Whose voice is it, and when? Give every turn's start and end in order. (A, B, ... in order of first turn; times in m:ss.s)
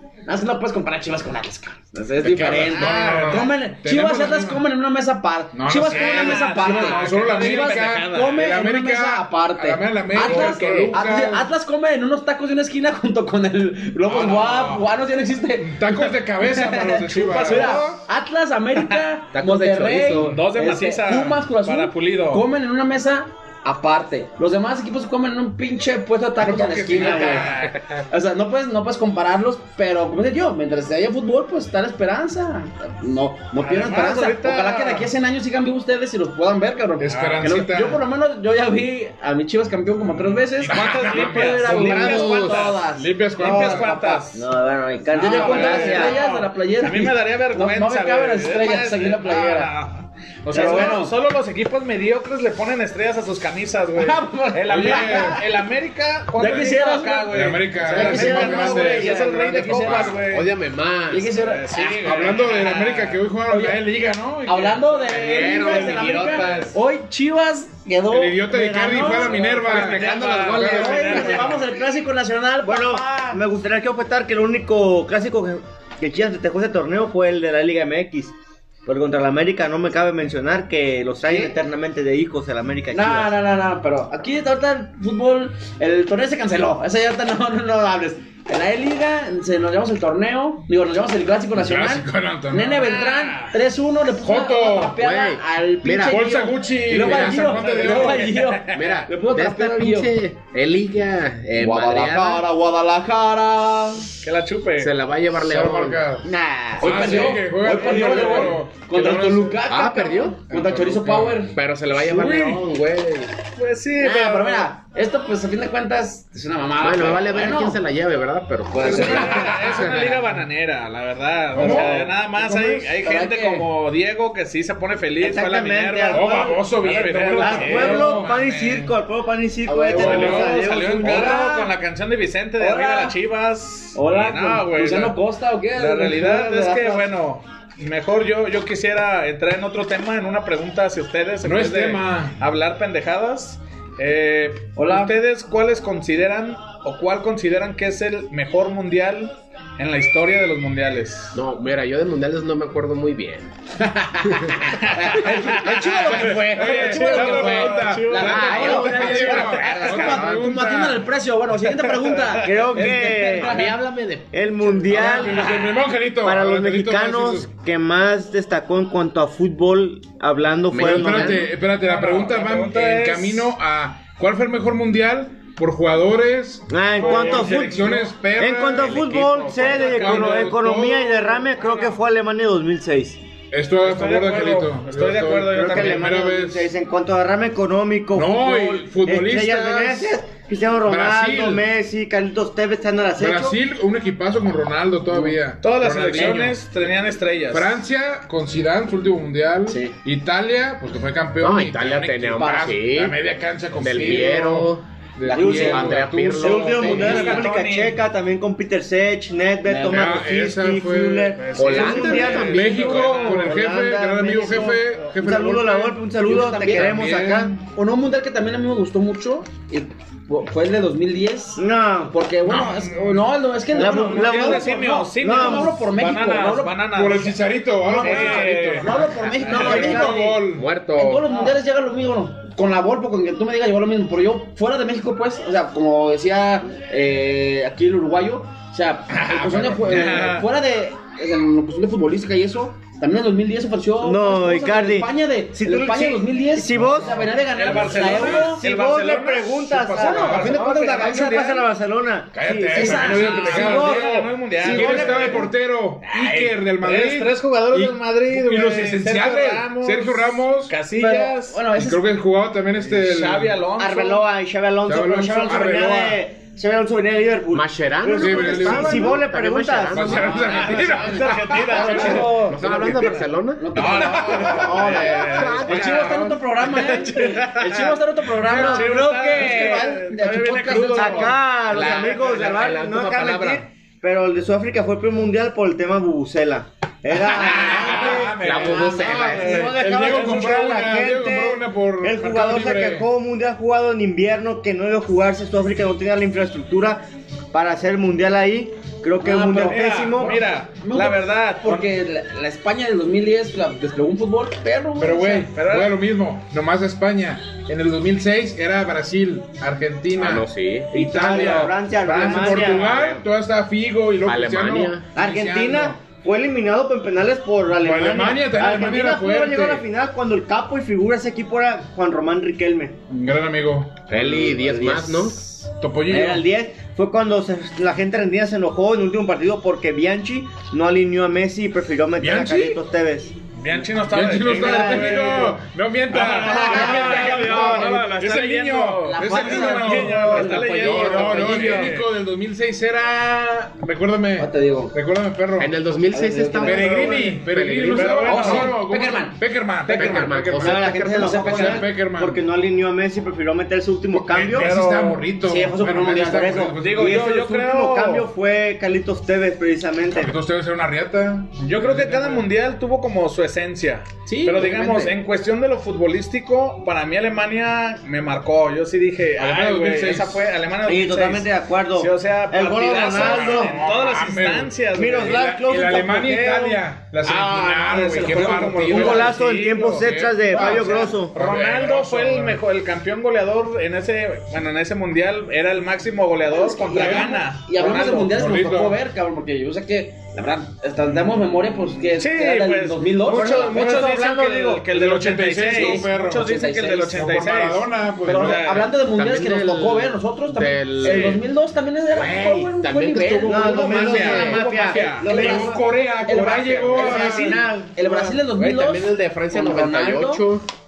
0:00.3-0:27.5 A
0:02.2-0:04.6 B
0:02.7-0:03.5 C
0:05.5-0:11.5 B
0:05.9-0:08.5 C
0:10.2-0:10.9 D
0:14.0-0:14.9 C
0:15.6-0:18.0 B
0:17.1-0:17.9 C
0:18.8-0:19.1 C
0:19.3-0:20.5 D
0:20.2-0:22.4 C
0:26.4-0:27.8 B
0:27.0-0:27.8 C
0:28.1-0:44.5 A
0:33.6-0:35.1 C
0:37.0-0:38.0 B
0:37.1-0:37.6 C
0:40.2-0:42.8 C
0:40.6-0:43.9 B
0:41.7-0:42.7 D
0:43.4-0:44.5 C
0:44.4-0:46.2 E
0:45.1-0:49.7 A
0:45.1-1:00.5 C
0:50.5-0:51.1 A
0:50.5-0:51.0 E
0:54.0-0:55.4 A
0:54.7-0:55.4 B
0:56.4-1:00.2 A
0:57.3-1:00.2 B
0:58.0-0:58.5 D
1:00.1-1:01.3 D
1:01.1-1:03.8 A
1:01.3-1:03.1 C
1:02.0-1:06.0 B
1:04.4-1:13.4 A
1:05.1-1:06.8 D
1:05.2-1:06.7 C
1:08.1-1:11.5 B
1:08.4-1:09.7 E
1:09.6-1:11.7 C
1:10.0-1:11.4 D
1:12.6-1:18.3 E
1:18.9-1:23.3 E
1:21.2-1:21.6 A
1:22.9-1:40.1 A
1:31.5-1:33.0 B
1:32.8-1:33.6 C
1:34.2-1:35.0 B
1:34.9-1:36.3 D
1:36.0-1:38.4 B
1:37.0-1:37.4 D
1:37.4-1:39.0 C
1:38.7-1:42.5 D
1:41.6-1:44.1 A
1:44.2-1:44.9 C
1:44.8-1:46.0 D
1:45.4-1:49.6 B
1:46.2-1:51.6 A
1:47.0-1:47.4 C
1:48.0-1:48.5 C
1:49.7-1:50.4 D
1:50.5-1:51.5 B
1:51.5-1:53.4 D
1:53.6-1:54.7 C
1:54.0-1:57.8 A
1:56.8-1:59.6 D
1:58.7-1:59.6 A
1:58.8-2:08.8 C
1:58.9-2:00.4 B
2:01.5-2:02.3 B
2:02.4-2:02.9 E
2:03.0-2:03.7 A
2:05.2-2:06.6 E
2:06.1-2:08.9 B
2:07.3-2:08.2 A
2:07.3-2:11.7 E
2:09.7-2:11.6 A
2:09.9-2:10.6 B
2:09.9-2:15.2 C
2:12.6-2:13.2 A
2:14.0-2:17.1 A
2:15.8-2:31.4 C
2:21.4-2:22.4 B
2:24.8-2:25.2 A
2:31.3-2:33.5 D
2:33.8-2:44.0 A
2:34.6-2:40.5 C
2:35.7-2:41.1 B
2:41.6-2:42.9 C
2:42.4-2:43.5 E
2:42.9-2:45.3 D
2:44.3-2:51.5 E
2:44.9-2:47.5 B
2:50.7-2:51.4 D
2:50.7-3:01.5 B
2:51.6-2:53.5 C
2:56.7-3:03.2 E
2:57.0-2:58.1 C
2:59.2-2:59.5 D
2:59.5-3:00.6 C
3:01.6-3:02.0 C
3:03.5-3:06.7 B
3:03.8-3:06.0 C
3:05.6-3:13.6 E
3:08.1-3:10.2 B
3:10.9-3:11.7 B
3:13.2-3:16.6 B
3:15.6-3:17.8 C
3:16.1-3:16.5 A
3:17.5-3:27.4 B
3:19.7-3:20.0 A
3:21.4-3:23.2 D
3:22.4-3:22.8 A
3:23.8-3:24.8 D
3:25.3-3:26.0 A
3:25.3-3:37.5 E
3:25.4-3:27.4 D
3:26.7-3:27.4 A
3:26.8-3:28.0 C
3:29.7-3:30.1 A
3:29.8-3:36.0 B
3:31.4-3:33.6 C
3:31.5-3:32.8 D
3:36.2-3:37.1 A
3:36.6-3:37.6 B
3:37.7-3:46.8 A
3:41.6-3:42.2 E
3:42.4-3:44.2 B
3:43.7-3:45.8 E
3:44.0-3:47.5 C
3:46.9-3:50.7 B
3:47.8-3:50.4 A
3:48.0-3:49.8 C
3:49.5-3:50.4 E
3:50.4-3:51.3 D
3:51.0-4:08.6 A
3:59.1-4:00.3 B
3:59.8-4:00.5 C
4:04.0-4:07.3 E
4:06.7-4:08.5 B
4:07.5-4:11.7 C
4:07.8-4:14.1 E
4:10.0-4:11.6 A
4:10.0-4:10.5 B
4:12.3-4:20.8 B
4:12.7-4:14.0 A
4:13.2-4:15.5 C
4:14.6-4:15.5 A
4:14.8-4:15.3 E
4:16.0-4:21.6 C
4:21.0-4:22.0 A
4:21.8-4:23.6 B
4:22.8-4:24.2 C
4:23.8-4:33.3 E
4:24.8-4:26.2 B
4:27.5-4:30.7 D
4:28.1-4:29.3 B
4:29.9-4:32.3 B
4:30.1-4:42.3 A
4:30.6-4:32.5 C
4:31.9-4:36.4 D
4:33.8-4:41.4 C
4:33.8-4:36.2 B
4:38.4-4:38.9 B
4:39.3-4:40.0 E
4:40.9-4:48.4 E
4:41.7-4:43.6 D
4:47.1-4:53.1 B
4:47.6-4:48.1 A
4:47.9-4:50.5 C
4:48.4-4:49.7 D
4:49.0-5:00.4 E
4:59.2-5:05.5 A
4:59.6-5:01.9 C
5:05.0-5:16.0 B
5:05.5-5:06.0 C
5:10.1-5:11.5 D
5:10.9-5:13.2 E
5:12.2-5:12.7 C
5:14.3-5:15.1 D
5:15.2-5:23.0 E
5:17.8-5:19.9 B
5:23.1-5:24.0 B
5:24.1-5:25.6 D
5:24.2-5:25.5 A
5:25.8-5:26.5 B
5:26.1-5:33.3 E
5:32.2-5:32.8 B
5:33.6-5:35.6 C
5:34.0-5:45.8 B
5:34.6-5:35.3 A
5:34.7-5:35.4 E
5:36.1-5:42.1 C
5:36.2-5:38.0 A
5:36.8-5:37.3 E
5:39.0-5:41.9 A
5:44.4-5:45.0 A
5:45.6-5:48.3 D
5:46.1-5:47.4 A
5:46.6-5:52.4 B
5:47.0-5:48.8 C
5:48.2-5:51.9 A
5:49.9-5:51.6 D
5:50.6-5:54.7 E
5:54.1-5:57.2 B
5:54.5-5:55.2 C
5:55.5-6:00.4 E
5:55.6-5:56.7 A
5:56.8-5:58.3 C
6:00.1-6:02.5 B
6:01.6-6:15.5 C
6:04.3-6:05.2 A
6:09.4-6:10.5 B
6:10.8-6:13.8 E
6:13.1-6:22.6 B
6:13.2-6:13.6 A
6:15.0-6:16.6 E
6:16.4-6:16.8 C
6:17.2-6:19.3 A
6:17.9-6:28.3 C
6:18.9-6:21.3 E
6:26.5-6:34.2 A
6:26.9-6:29.0 B
6:32.2-6:38.9 C
6:33.3-6:34.8 E
6:34.9-6:36.5 B
6:35.7-6:37.2 A
6:37.1-6:38.7 B
6:38.2-6:50.5 A
6:39.0-6:41.4 D
6:41.0-6:41.4 C
6:42.2-6:44.6 D
6:43.5-6:45.8 E
6:43.7-6:44.1 B
6:43.8-6:45.6 C
6:45.2-6:47.5 B
6:46.3-6:47.6 C
6:46.5-6:48.4 E
6:48.5-6:50.7 D